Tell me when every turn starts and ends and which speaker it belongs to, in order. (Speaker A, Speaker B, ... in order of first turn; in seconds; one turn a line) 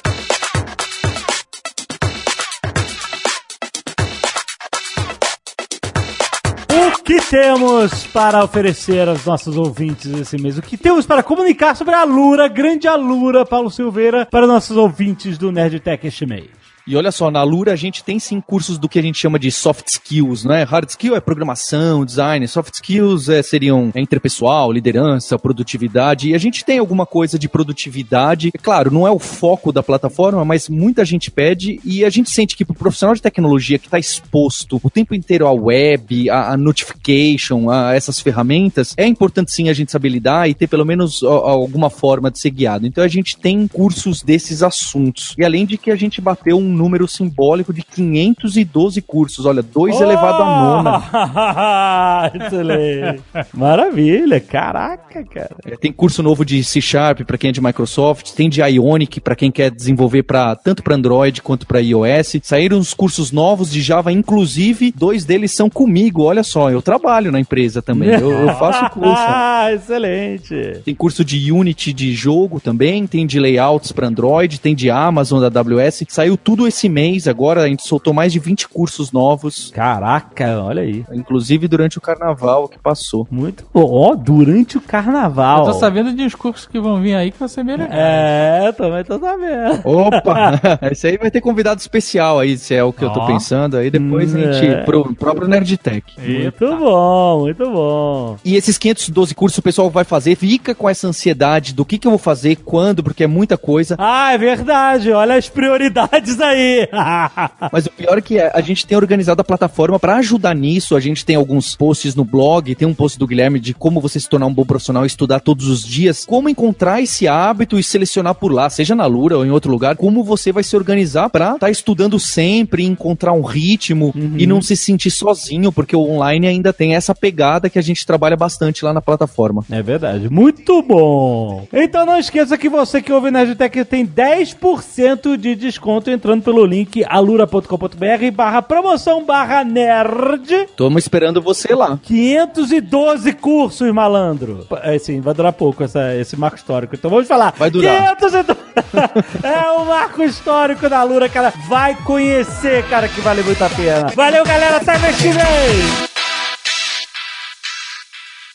Speaker A: 6.7-16.6
Speaker B: 16.9-51.0
Speaker A: 49.9-55.6
Speaker B: 55.7-69.4
Speaker A: 67.9-70.8
Speaker C: 68.3-68.6
Speaker B: 70.9-79.7
Speaker A: 79.7-81.1
Speaker B: 81.1-83.3
Speaker A: 83.3-85.9
Speaker C: 85.5-88.3
Speaker A: 87.8-90.5
Speaker B: 89.8-96.2
Speaker C: 93.0-93.5
Speaker A: 93.9-94.9
Speaker C: 96.2-96.8
Speaker A: 96.2-98.4
Speaker B: 98.5-104.0
Speaker A: 104.0-107.7
Speaker B: 107.7-129.7
Speaker A: 124.1-124.7
Speaker A: 129.7-140.7
Speaker B: 140.8-142.0
Speaker A: 142.0-156.0
Speaker B: 147.6-148.1